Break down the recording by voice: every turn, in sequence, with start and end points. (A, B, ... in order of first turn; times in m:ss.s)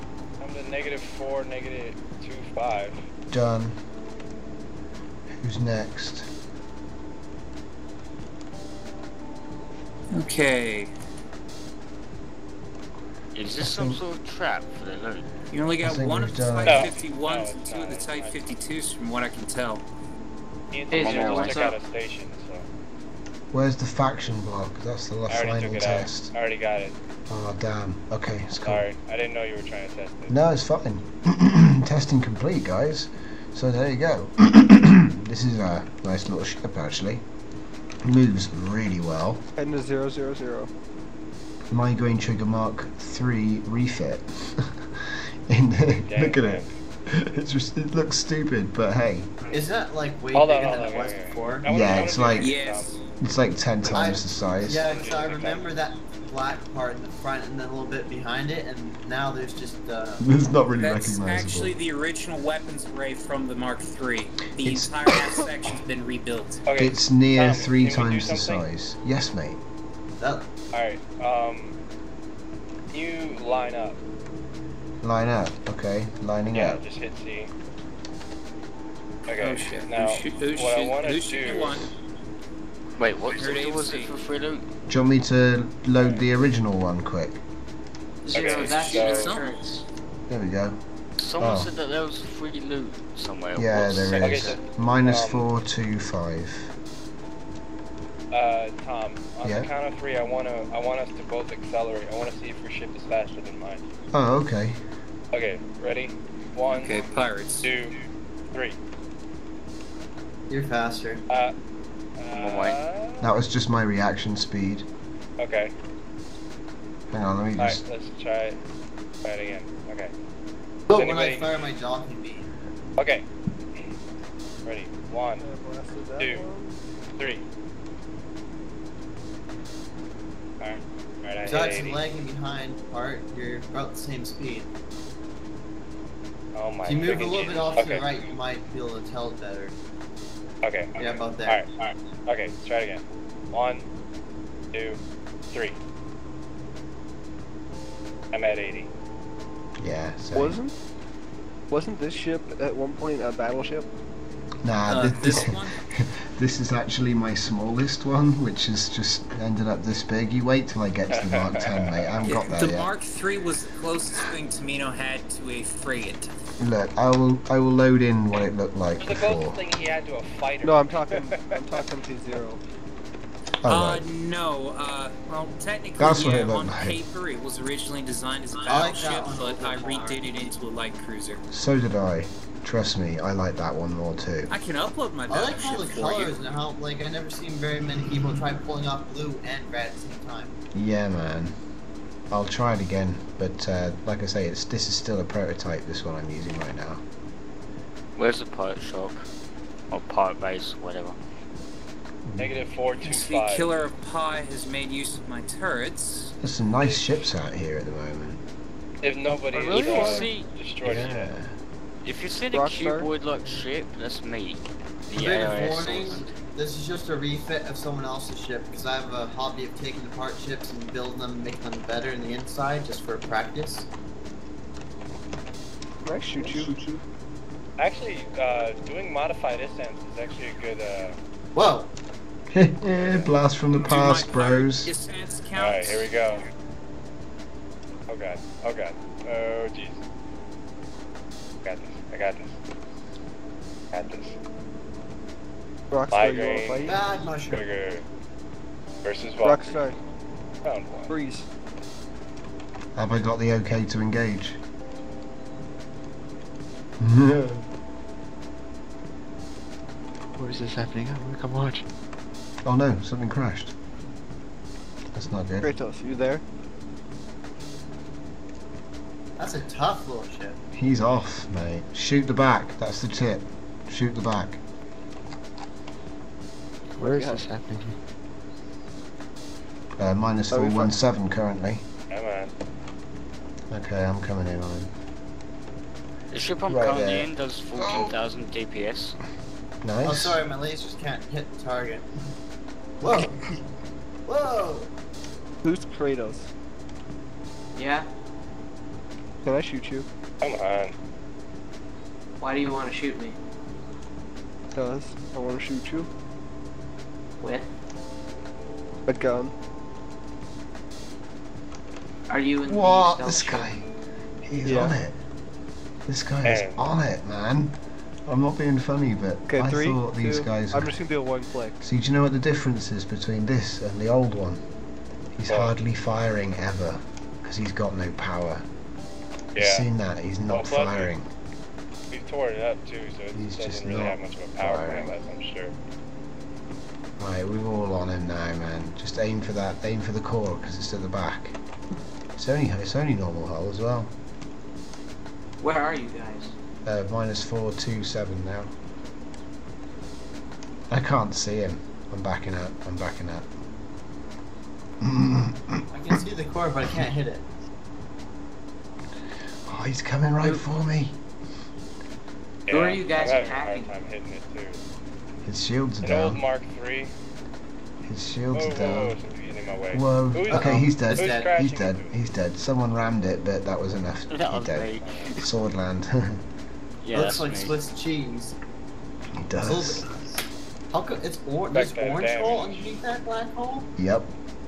0:00.4-0:03.0 A
0:03.3-0:03.8 B
0:05.3-0:06.3 B
0:10.1-0:10.9 C
0:13.4-0:15.3 D
0:13.6-0:14.0 B
0:15.5-0:19.8 C
0:15.8-0:16.9 B
0:16.6-0:18.5 A
0:20.7-0:22.7 A
0:20.9-0:21.8 E
0:20.9-0:21.6 D
0:23.5-0:26.3 B
0:25.3-0:27.0 A
0:27.3-0:28.8 B
0:28.6-0:30.4 A
0:30.3-0:37.2 B
0:38.0-0:39.4 B
0:39.6-0:40.7 F
0:41.7-0:49.3 B
0:46.1-0:46.7 A
0:49.5-0:52.1 G
0:50.3-0:53.0 A
0:51.7-0:52.5 B
0:52.4-0:53.0 C
0:53.2-0:55.0 B
0:53.8-1:00.2 G
0:54.8-0:55.7 A
1:00.2-1:01.8 B
1:00.8-1:06.6 C
1:04.6-1:05.1 B
1:06.7-1:08.6 A
1:06.8-1:09.6 B
1:10.2-1:10.5 G
1:10.7-1:11.8 A
1:12.9-1:14.0 A
1:15.0-1:16.8 B
1:16.5-1:17.5 A
1:19.3-1:21.8 A
1:19.4-1:21.9 C
1:23.0-1:24.6 D
1:23.2-1:24.2 C
1:24.9-1:27.4 B
1:28.2-1:29.8 E
1:28.3-1:29.4 A
1:28.4-1:29.6 C
1:28.5-1:28.7 D
1:30.3-1:30.8 B
1:31.2-1:34.6 D
1:31.4-1:31.7 B
1:33.6-1:36.7 B
1:34.2-1:35.5 A
1:38.3-1:43.8 A
1:39.4-1:39.7 B
1:44.1-1:44.8 B
1:45.3-1:47.0 A
1:46.7-1:47.7 C
1:47.6-1:47.9 A
1:48.5-1:48.8 A
1:50.5-1:51.2 G
1:51.3-1:51.6 A
1:52.2-1:53.4 A
1:52.3-1:52.8 D
1:53.2-1:54.9 B
1:55.4-1:55.7 A
1:57.1-1:57.8 B
1:57.6-1:58.6 A
1:59.2-2:00.1 A
2:00.9-2:02.5 G
2:00.9-2:01.7 A
2:03.0-2:03.3 A
2:04.7-2:05.4 A
2:05.4-2:06.8 F
2:06.2-2:06.5 A
2:07.2-2:07.4 A
2:10.6-2:12.0 A
2:11.4-2:14.7 G
2:16.6-2:18.1 A
2:16.8-2:19.8 G
2:20.6-2:21.7 A
2:21.0-2:21.6 G
2:22.3-2:23.9 A
2:24.7-2:25.0 A
2:25.5-2:25.8 A
2:28.3-2:28.9 A
2:29.8-2:30.6 B
2:30.4-2:30.7 F
2:31.7-2:33.9 F
2:34.6-2:42.9 B
2:34.9-2:35.8 C
2:41.1-2:42.2 A
2:42.2-2:46.3 C
2:46.6-2:49.6 B
2:49.0-2:51.8 A
2:50.6-2:52.6 F
2:53.6-2:54.1 B
2:53.7-3:01.5 C
2:56.0-2:57.0 B
2:58.6-3:00.3 G
3:01.5-3:04.6 B
3:04.5-3:06.4 C
3:05.3-3:10.5 G
3:10.7-3:11.6 B
3:12.3-3:17.0 B
3:18.2-3:19.3 D
3:19.9-3:21.2 D
3:22.3-3:22.6 B
3:22.4-3:23.8 A
3:23.0-3:26.3 C
3:26.4-3:28.4 B
3:29.0-3:31.3 A
3:29.6-3:30.5 D
3:29.6-3:30.1 F
3:30.8-3:31.6 B
3:32.0-3:36.3 D
3:32.5-3:33.1 F
3:35.1-3:43.9 G
3:46.0-3:46.7 F
3:46.4-3:47.0 G
3:47.8-3:51.2 A
3:51.5-3:51.9 G
3:52.5-3:54.9 B
3:53.0-3:53.3 A
3:53.8-3:56.1 C
3:55.6-3:56.4 A
3:58.1-4:00.0 A
4:01.6-4:02.6 A
4:03.9-4:04.4 A
4:05.9-4:07.0 F
4:06.1-4:07.0 A
4:06.8-4:07.6 G
4:07.5-4:08.0 A
4:09.0-4:09.9 A
4:09.4-4:10.0 F
4:10.6-4:11.2 A
4:11.1-4:11.5 F
4:13.0-4:14.6 B
4:17.0-4:17.6 B
4:20.4-4:21.8 H
4:22.6-4:23.7 B
4:25.1-4:25.7 B
4:25.6-4:26.4 F
4:29.4-4:30.6 G
4:30.7-4:34.6 B
4:37.0-4:38.0 H
4:37.1-4:37.4 F
4:40.0-4:41.8 B
4:40.5-4:40.9 F
4:42.1-4:42.5 A
4:43.7-4:44.9 B
4:46.3-4:49.2 D
4:46.7-4:48.2 B
4:49.8-4:50.4 B
4:50.0-4:52.1 G
4:53.0-4:53.6 G
4:54.3-4:54.9 G
4:55.6-4:56.5 F
4:57.8-4:58.1 E
4:59.4-5:00.1 F
5:00.4-5:00.9 A
5:02.4-5:03.4 E
5:04.8-5:06.1 F
5:07.4-5:07.7 E
5:09.1-5:09.5 F
5:12.3-5:13.7 E
5:12.7-5:13.9 B
5:14.4-5:15.2 B
5:14.6-5:14.9 F
5:16.1-5:17.8 B
5:16.4-5:16.8 A
5:18.3-5:21.0 B
5:19.5-5:21.8 F
5:21.8-5:24.6 B
5:25.4-5:28.7 B
5:25.5-5:25.7 A
5:29.6-5:29.9 A
5:29.6-5:31.3 B
5:30.5-5:31.1 A
5:32.1-5:35.7 A
5:33.3-5:35.1 B
5:37.2-5:41.6 B
5:42.4-5:44.1 B
5:45.6-5:46.5 E
5:46.8-5:48.7 B
5:50.9-5:53.5 B
5:55.0-5:55.8 B
5:55.9-5:57.4 G
5:59.7-6:01.2 B
6:02.7-6:04.8 A
6:02.7-6:03.9 E
6:05.4-6:06.4 B
6:06.0-6:07.1 A
6:08.0-6:09.2 B
6:08.5-6:12.1 A
6:09.9-6:16.4 B
6:10.5-6:11.5 G
6:14.3-6:15.4 D
6:15.0-6:15.3 A
6:17.0-6:17.8 D
6:17.1-6:18.6 G
6:19.3-6:20.0 B
6:19.6-6:20.1 G
6:20.9-6:23.9 G
6:21.7-6:23.0 A
6:24.0-6:24.3 B